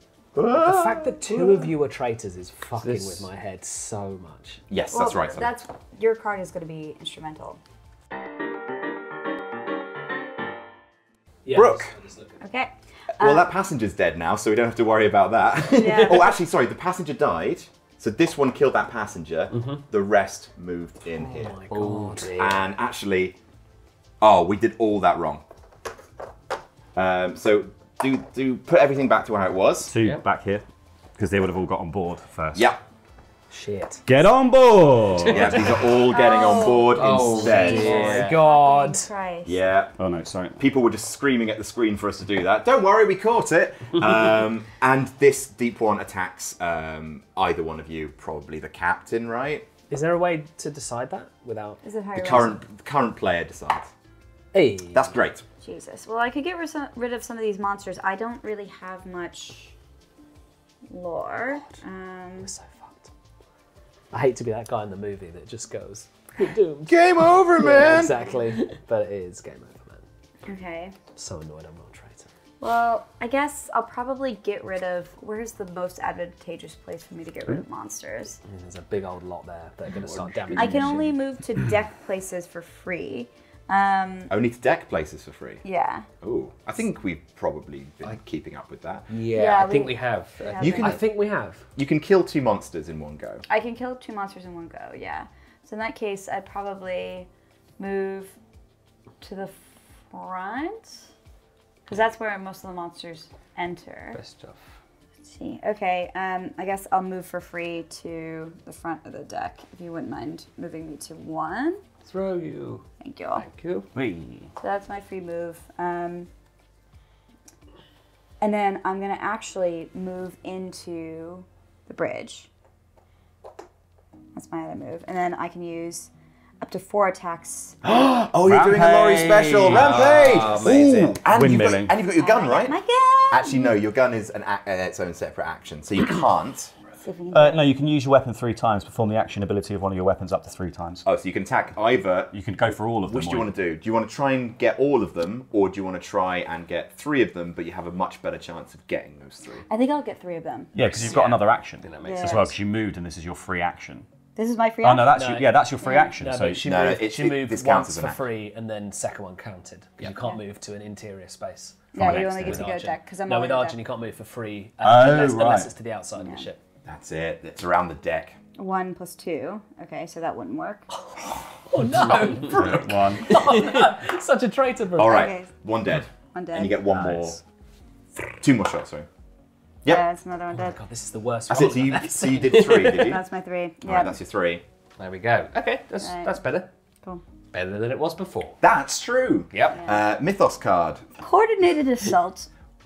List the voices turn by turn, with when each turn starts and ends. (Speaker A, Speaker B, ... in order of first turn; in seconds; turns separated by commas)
Speaker A: 0.4-1.7, Speaker B: 0.6-4.6, Speaker C: 2.8-3.3, Speaker A: 4.7-5.5, Speaker D: 4.9-7.6, Speaker B: 11.4-12.4, Speaker A: 11.5-11.9, Speaker D: 12.4-13.5, Speaker A: 13.2-21.6, Speaker D: 15.7-16.4, Speaker C: 19.5-19.8, Speaker B: 21.1-22.5, Speaker C: 21.7-22.6, Speaker A: 22.4-23.4, Speaker A: 24.2-25.4, Speaker A: 26.9-29.9, Speaker E: 29.9-30.6, Speaker E: 31.2-32.7, Speaker A: 32.5-32.8, Speaker B: 33.5-34.0, Speaker E: 34.1-35.8, Speaker A: 35.3-38.3, Speaker D: 36.0-39.6, Speaker C: 36.5-38.4, Speaker B: 37.4-39.1, Speaker A: 39.5-40.0, Speaker E: 40.0-40.6, Speaker A: 40.6-49.7, Speaker B: 49.9-51.8, Speaker D: 51.8-52.6, Speaker A: 52.1-53.9, Speaker B: 54.5-55.1, Speaker A: 54.9-55.4, Speaker D: 55.6-59.7, Speaker D: 60.9-62.5, Speaker B: 62.4-63.1, Speaker B: 64.1-70.0, Speaker A: 66.9-68.2, Speaker D: 70.5-71.0, Speaker B: 71.1-72.3, Speaker D: 72.6-78.4, Speaker B: 78.5-81.1, Speaker C: 80.0-81.1, Speaker D: 80.6-84.3, Speaker A: 84.3-85.6, Speaker D: 85.6-86.1, Speaker A: 86.2-89.1, Speaker C: 89.1-90.8, Speaker D: 89.3-91.0, Speaker A: 90.6-91.0, Speaker B: 90.7-91.6, Speaker A: 91.8-93.4, Speaker D: 93.5-98.4, Speaker D: 99.2-100.9, Speaker D: 101.9-104.2, Speaker C: 104.1-104.6, Speaker D: 105.3-111.8, Speaker C: 112.0-112.8, Speaker D: 113.0-113.5, Speaker C: 113.4-113.9, Speaker E: 114.0-114.5, Speaker D: 114.6-116.3, Speaker D: 118.4-122.5, Speaker D: 124.3-126.1, Speaker D: 126.6-127.8, Speaker A: 127.8-132.8, Speaker E: 128.4-130.5, Speaker C: 129.6-131.2, Speaker E: 131.3-131.9, Speaker D: 132.1-133.8, Speaker A: 133.3-136.7, Speaker D: 137.0-137.7, Speaker E: 137.3-141.1, Speaker A: 141.0-149.7, Speaker E: 142.3-143.5, Speaker D: 149.7-150.8, Speaker E: 150.8-154.1, Speaker C: 150.8-152.5, Speaker D: 152.0-152.5, Speaker D: 154.4-155.3, Speaker E: 154.8-156.7, Speaker B: 155.2-166.6, Speaker D: 155.8-156.2, Speaker A: 156.6-158.2, Speaker D: 160.1-160.4, Speaker D: 161.9-163.8, Speaker E: 161.9-162.7, Speaker E: 164.8-165.7, Speaker D: 166.2-166.5, Speaker A: 166.8-168.4, Speaker D: 168.6-170.9, Speaker B: 171.7-175.3, Speaker E: 172.1-173.4, Speaker A: 175.0-177.4, Speaker D: 175.0-175.5, Speaker D: 176.3-176.8, Speaker E: 176.9-177.4, Speaker A: 178.4-179.1, Speaker D: 179.9-180.8, Speaker B: 180.5-183.0, Speaker A: 181.5-183.2, Speaker D: 182.9-184.2, Speaker A: 183.8-184.6, Speaker C: 185.0-186.7, Speaker D: 186.0-186.4, Speaker C: 187.5-188.6, Speaker A: 188.6-191.1, Speaker C: 189.5-189.8, Speaker D: 191.2-192.5